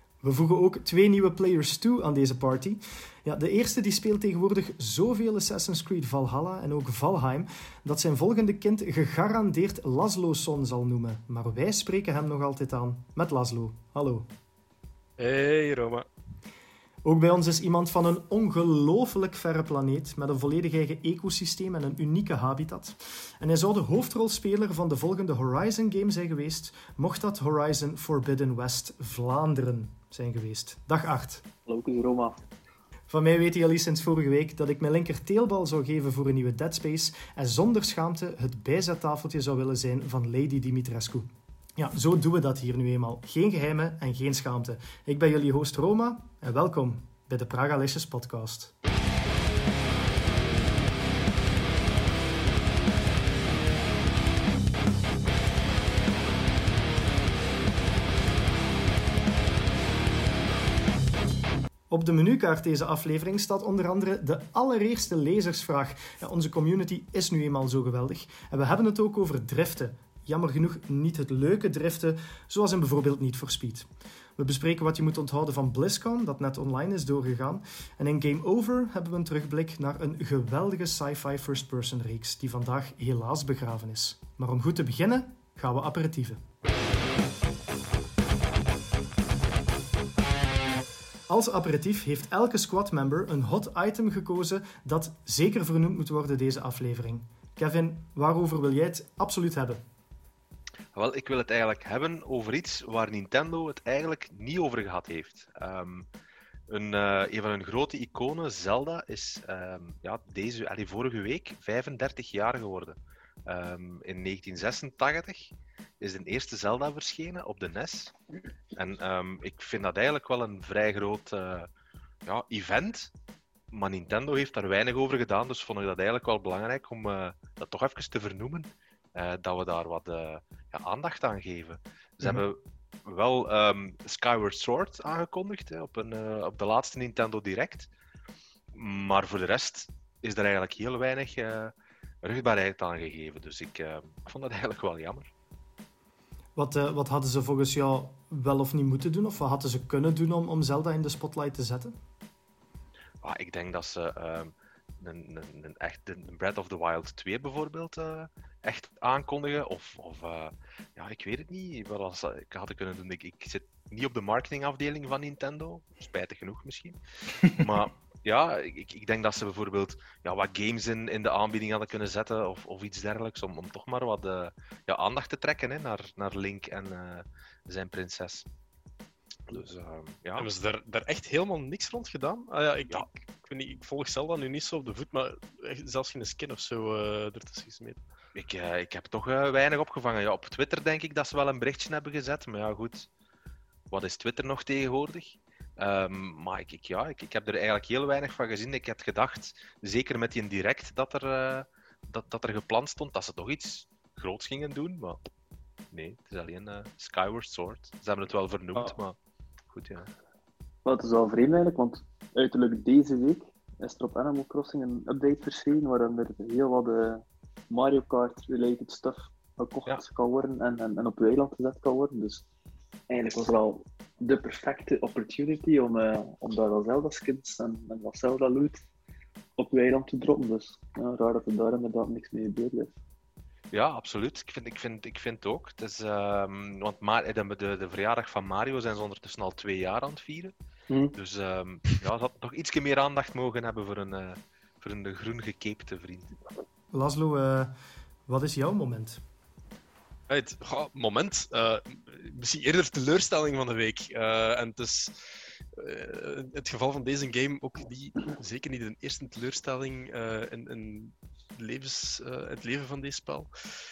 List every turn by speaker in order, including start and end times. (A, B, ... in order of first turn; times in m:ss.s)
0:00.2-0:14.3 A
0:15.2-0:16.1 B
0:17.0-0:31.4 A
0:31.7-0:32.4 C
0:33.1-0:48.7 A
1:01.9-1:26.4 A
1:31.3-1:39.8 A
1:41.0-1:46.1 D
1:46.7-1:58.1 D
1:58.7-2:01.7 D
2:02.3-2:03.1 D
2:03.7-2:17.9 D
2:18.7-2:25.3 D
2:26.6-2:32.0 A
2:33.2-2:47.0 D
2:47.5-2:58.5 D
2:59.5-3:00.5 D
3:00.4-3:08.0 B
3:08.4-3:13.1 D
3:13.9-3:25.2 D
3:25.9-3:29.2 D
3:29.7-3:30.1 D
3:30.8-3:42.4 C
3:43.1-3:48.8 C
3:49.6-3:52.9 C
3:53.7-4:00.5 D
4:00.9-4:01.2 C
4:01.2-4:06.4 D
4:06.9-4:07.7 A
4:08.3-4:09.2 A
4:10.3-4:23.5 B